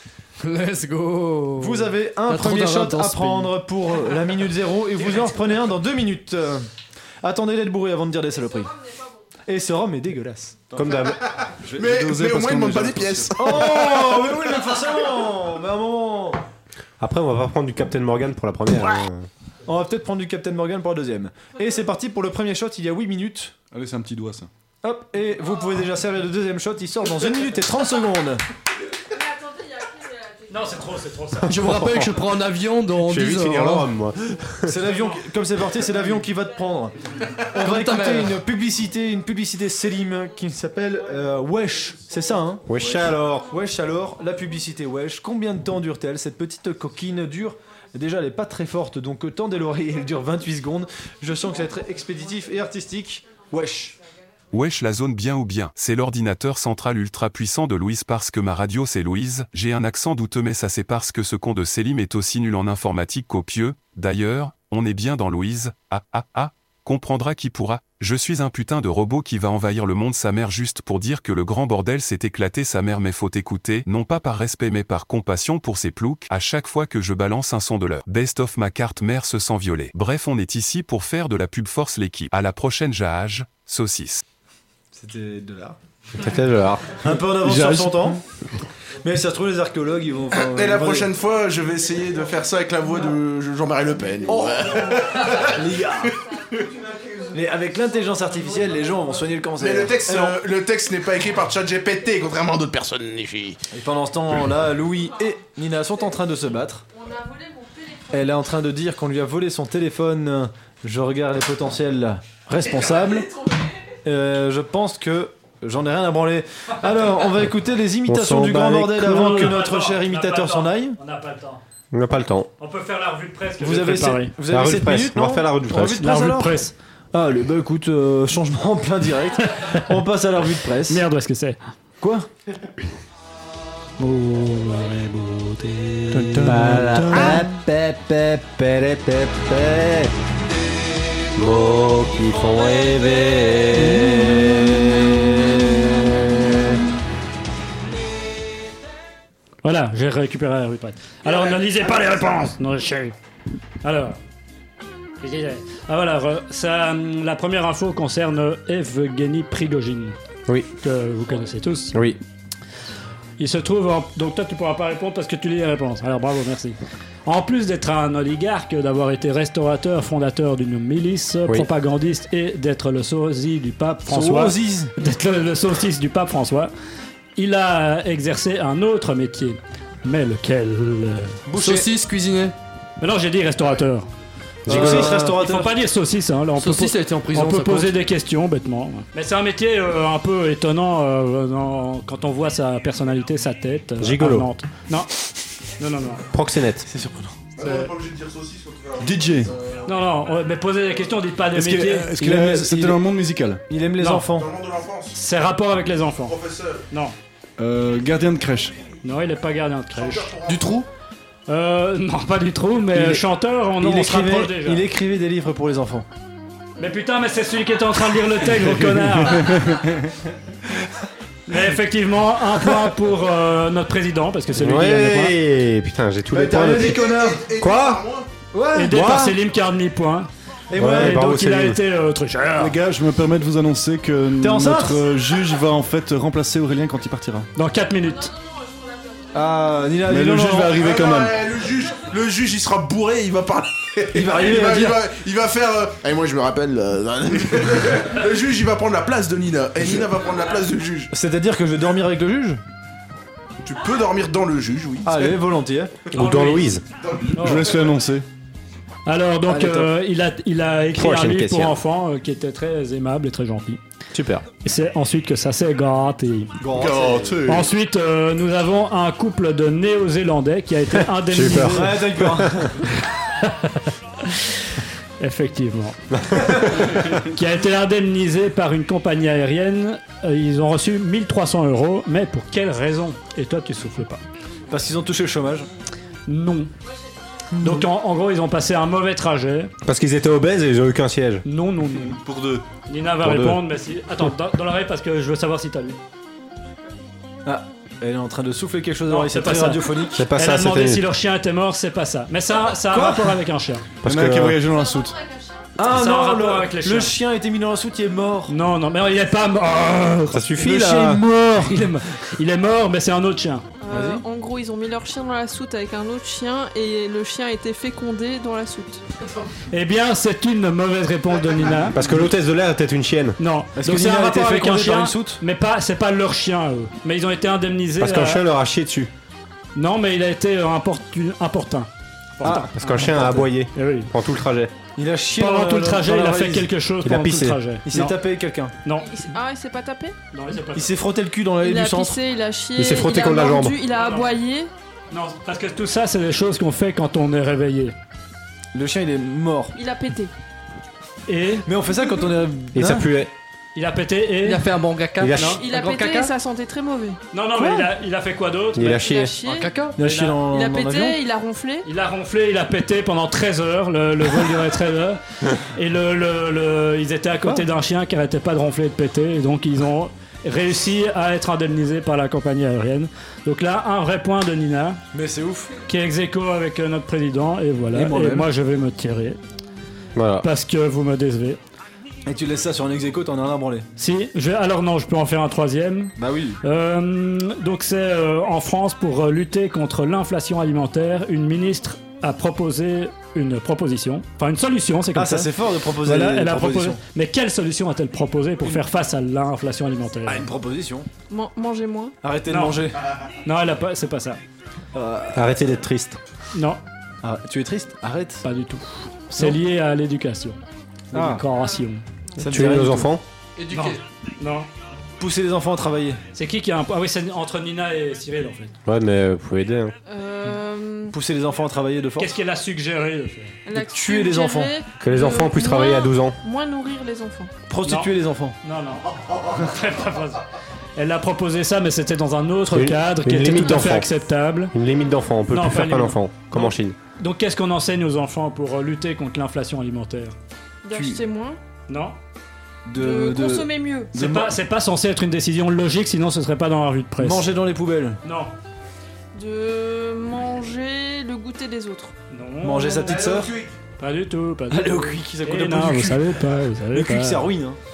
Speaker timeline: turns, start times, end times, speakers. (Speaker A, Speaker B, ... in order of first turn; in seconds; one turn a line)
Speaker A: 0.4-3.5
Speaker B: 1.6-6.7
Speaker B: 7.2-8.8
Speaker B: 9.5-10.6
Speaker C: 10.7-11.2
Speaker D: 11.3-14.3
Speaker E: 11.6-13.6
Speaker B: 13.4-16.4
Speaker C: 17.0-19.3
Speaker B: 19.7-23.6
Speaker E: 23.7-24.5
Speaker B: 24.8-28.4
Speaker F: 29.2-30.4
Speaker G: 30.5-31.8
Speaker A: 31.5-34.0
Speaker C: 31.6-32.1
Speaker C: 33.0-34.8
Speaker B: 34.7-37.0
Speaker B: 37.5-54.0
Speaker A: 37.6-38.4
Speaker C: 42.7-43.5
Speaker H: 54.5-84.2
Speaker B: 84.9-85.8
Speaker C: 86.1-87.0
Speaker B: 87.0-88.2
Speaker E: 87.2-88.1
Speaker B: 89.0-91.1
Speaker D: 90.4-95.6
Speaker B: 94.3-96.2
Speaker B: 97.3-100.4
Speaker D: 99.6-103.6
Speaker B: 103.7-106.8
Speaker F: 107.2-107.7
Speaker B: 108.1-113.3
Speaker B: 114.0-121.0
Speaker C: 118.0-119.4
Speaker G: 119.0-121.6
Speaker C: 121.9-122.5
Speaker G: 122.6-124.3
Speaker B: 123.6-131.1
Speaker C: 124.5-126.1
Speaker G: 125.8-126.7
Speaker G: 130.9-131.6
Speaker B: 132.0-132.3
Speaker C: 134.0-140.1
Speaker G: 136.1-137.4
Speaker C: 141.3-146.8
Speaker G: 149.6-153.1
Speaker G: 153.8-154.2
Speaker G: 155.2-160.2
Speaker G: 160.8-162.0
Speaker C: 161.9-162.2
Speaker G: 163.4-176.7
Speaker B: 174.1-174.9
Speaker G: 177.4-181.4
Speaker B: 181.5-181.9
Speaker A: 181.6-182.6
Speaker G: 183.0-184.1
Speaker C: 184.7-185.2
Speaker B: 184.7-185.8
Speaker G: 184.7-195.1
Speaker A: 186.6-188.0
Speaker C: 194.0-194.5
Speaker G: 195.8-196.2
Speaker C: 196.3-196.9
Speaker B: 196.9-197.4
Speaker D: 197.6-200.0
Speaker G: 197.6-197.9
Speaker E: 199.0-199.5
Speaker G: 199.8-202.1
Speaker E: 201.5-203.6
Speaker B: 202.1-203.1
Speaker B: 203.7-204.5
Speaker G: 204.0-204.2
Speaker D: 204.2-205.2
Speaker G: 205.1-206.4
Speaker D: 206.2-206.8
Speaker G: 206.9-207.2
Speaker E: 207.6-208.8
Speaker G: 209.0-210.3
Speaker D: 209.9-210.8
Speaker A: 210.4-210.9
Speaker G: 211.5-214.9
Speaker B: 212.9-213.2
Speaker B: 213.8-216.1
Speaker G: 216.8-219.7
Speaker E: 219.3-219.7
Speaker G: 221.5-225.3
Speaker C: 224.6-228.0
Speaker B: 226.3-227.5
Speaker D: 226.8-228.3
Speaker B: 228.5-229.4
Speaker G: 228.7-232.8
Speaker C: 228.9-229.2
Speaker B: 230.7-231.4
Speaker C: 230.8-231.8
Speaker E: 232.6-237.5
Speaker B: 234.4-235.0
Speaker G: 237.6-238.3
Speaker B: 239.3-240.9
Speaker E: 240.1-241.4
Speaker D: 240.8-251.1
Speaker B: 244.1-245.1
Speaker B: 249.8-250.1
Speaker B: 251.1-252.6
Speaker D: 253.6-255.4
Speaker B: 255.0-255.9
Speaker C: 256.1-256.9
Speaker G: 256.1-256.7
Speaker D: 257.0-257.9
Speaker G: 257.4-257.7
Speaker E: 257.4-258.2
Speaker G: 259.1-263.8
Speaker B: 259.5-259.9
Speaker C: 260.9-261.8
Speaker C: 264.1-264.5
Speaker G: 264.6-266.6
Speaker B: 266.6-267.4
Speaker E: 266.8-267.6
Speaker D: 266.8-267.4
Speaker G: 267.5-272.0
Speaker C: 271.2-272.7
Speaker B: 271.6-272.8
Speaker G: 273.1-284.2
Speaker C: 276.3-276.9
Speaker B: 284.7-285.7
Speaker G: 286.3-286.7
Speaker B: 287.6-287.9
Speaker G: 287.6-289.7
Speaker C: 289.9-291.4
Speaker G: 291.4-292.2
Speaker E: 292.0-292.7
Speaker G: 292.9-296.0
Speaker C: 293.2-293.6
Speaker B: 297.4-300.2
Speaker G: 299.1-303.9
Speaker C: 300.1-301.1
Speaker B: 302.9-303.4
Speaker C: 304.0-304.6
Speaker E: 304.0-305.2
Speaker B: 305.8-308.6
Speaker G: 305.9-307.1
Speaker G: 308.5-313.7
Speaker C: 310.3-311.2
Speaker B: 310.6-311.8
Speaker F: 313.8-319.0
Speaker B: 313.9-314.2
Speaker G: 319.7-322.0
Speaker C: 321.9-323.4
Speaker B: 322.0-322.3
Speaker G: 323.4-328.4
Speaker B: 323.8-325.4
Speaker C: 328.0-329.1
Speaker G: 329.8-334.1
Speaker B: 332.4-333.5
Speaker C: 332.4-334.7
Speaker B: 335.0-336.7
Speaker G: 335.4-338.2
Speaker C: 337.0-337.6
Speaker B: 337.9-338.7
Speaker G: 338.8-339.1
Speaker F: 339.0-340.2
Speaker G: 340.3-340.9
Speaker B: 340.7-342.2
Speaker F: 341.6-344.7
Speaker C: 342.8-343.8
Speaker G: 343.9-344.4
Speaker G: 345.1-347.9
Speaker B: 348.7-349.8
Speaker F: 349.8-350.3
Speaker G: 351.3-351.7
Speaker B: 351.7-353.1
Speaker C: 352.7-353.3
Speaker G: 353.8-354.7
Speaker A: 354.4-356.3
Speaker C: 355.2-355.6
Speaker G: 355.3-355.6
Speaker F: 355.4-357.2
Speaker G: 357.3-359.0
Speaker B: 357.6-357.9
Speaker C: 358.8-359.4
Speaker F: 358.9-359.7
Speaker A: 359.4-360.0
Speaker B: 360.0-361.2
Speaker G: 360.0-360.4
Speaker F: 360.4-361.9
Speaker G: 361.9-375.0
Speaker B: 375.1-375.7
Speaker G: 375.9-379.4
Speaker B: 377.9-378.5
Speaker C: 380.1-380.5
Speaker G: 380.4-381.6
Speaker B: 382.3-383.9
Speaker G: 384.0-395.5
Speaker B: 386.2-386.6
Speaker B: 395.1-397.0
Speaker G: 396.0-400.4
Speaker B: 400.3-401.1
Speaker F: 401.3-402.1
Speaker B: 402.2-403.0
Speaker G: 402.5-402.8
Speaker G: 403.4-404.4
Speaker B: 404.9-405.5
Speaker C: 405.3-406.2
Speaker G: 406.5-406.8
Speaker B: 407.2-408.4
Speaker G: 408.4-410.6
Speaker B: 411.1-411.4
Speaker G: 411.1-412.0
Speaker B: 412.4-413.1
Speaker C: 412.4-413.2
Speaker A: 413.6-414.0
Speaker G: 413.7-414.7
Speaker B: 415.2-416.2
Speaker G: 416.4-418.7
Speaker C: 418.9-419.9
Speaker F: 420.1-421.2
Speaker B: 421.1-422.3
Speaker G: 422.2-423.6
Speaker F: 423.7-427.5
Speaker B: 423.7-424.7
Speaker C: 425.0-426.4
Speaker B: 427.7-428.6
Speaker G: 427.9-430.4
Speaker G: 431.0-434.7
Speaker C: 432.7-434.1
Speaker C: 434.7-437.0
Speaker G: 435.5-440.4
Speaker F: 440.8-441.6
Speaker B: 440.9-441.2
Speaker G: 441.9-442.2
Speaker B: 442.9-444.6
Speaker F: 443.0-444.1
Speaker G: 444.1-447.5
Speaker B: 447.2-448.2
Speaker G: 448.2-448.5
Speaker F: 449.4-452.1
Speaker G: 452.3-453.3
Speaker B: 452.6-453.5
Speaker D: 453.0-453.8
Speaker G: 454.0-457.4
Speaker B: 454.7-456.3
Speaker B: 456.9-457.8